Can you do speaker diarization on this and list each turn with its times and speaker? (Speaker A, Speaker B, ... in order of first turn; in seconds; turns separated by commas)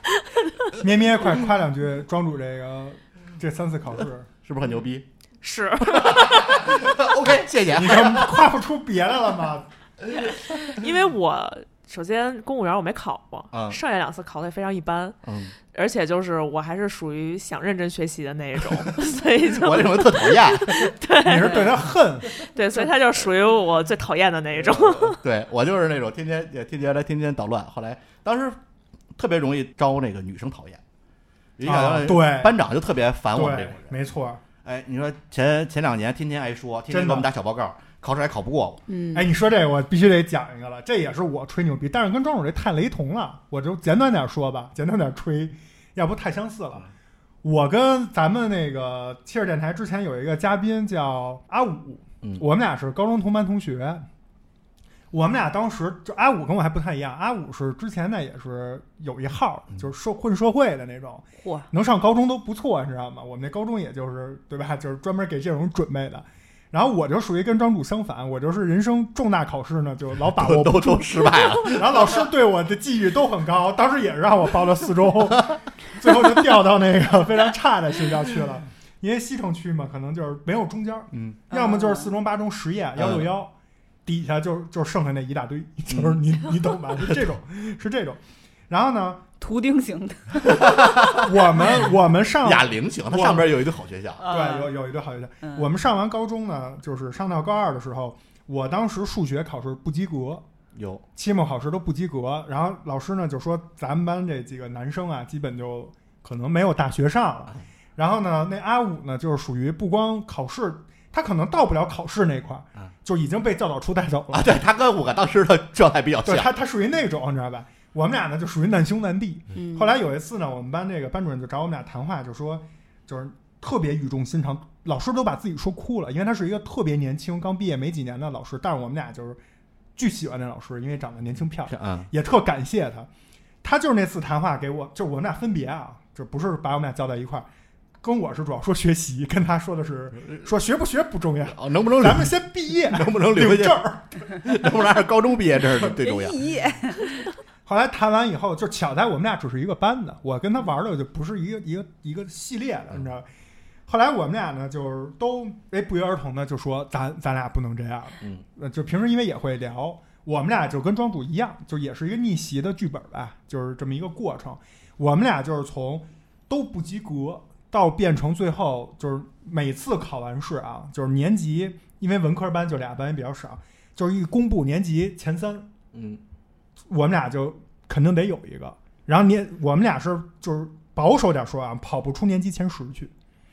Speaker A: 0.8-4.3, Speaker B: 4.4-5.1, Speaker C: 5.4-6.8, Speaker B: 5.8-8.5, Speaker A: 7.7-9.7, Speaker B: 10.1-10.4, Speaker C: 10.6-15.2, Speaker B: 13.5-13.8, Speaker B: 15.2-15.5, Speaker C: 15.7-21.8, Speaker B: 19.5-20.9, Speaker A: 21.2-22.9, Speaker C: 22.4-25.2, Speaker B: 24.6-28.6, Speaker B: 29.1-30.8, Speaker B: 31.6-34.0, Speaker A: 31.6-32.5, Speaker A: 33.3-34.4, Speaker B: 34.6-38.8, Speaker A: 36.9-37.3, Speaker D: 38.9-39.3, Speaker A: 39.1-46.9, Speaker A: 47.4-54.0, Speaker A: 55.1-83.5, Speaker D: 61.4-61.7, Speaker B: 70.3-72.2, Speaker B: 81.1-81.4, Speaker D: 81.5-82.1, Speaker B: 83.0-83.3, Speaker A: 84.0-89.2, Speaker B: 85.9-86.2, Speaker B: 87.0-87.3, Speaker D: 89.4-90.4, Speaker B: 90.4-91.9, Speaker A: 91.2-93.5, Speaker B: 92.4-94.2, Speaker D: 94.2-94.7, Speaker A: 94.2-100.4, Speaker D: 95.4-95.7, Speaker B: 100.7-101.0, Speaker A: 101.2-114.6, Speaker B: 114.3-116.5, Speaker A: 116.2-129.4, Speaker D: 119.5-119.9, Speaker A: 129.9-133.1, Speaker B: 131.7-132.1, Speaker A: 133.6-137.4, Speaker A: 138.0-144.2, Speaker B: 141.4-146.4, Speaker D: 145.9-147.2, Speaker A: 147.7-153.2, Speaker A: 153.9-175.7, Speaker B: 175.9-176.2, Speaker A: 176.9-183.1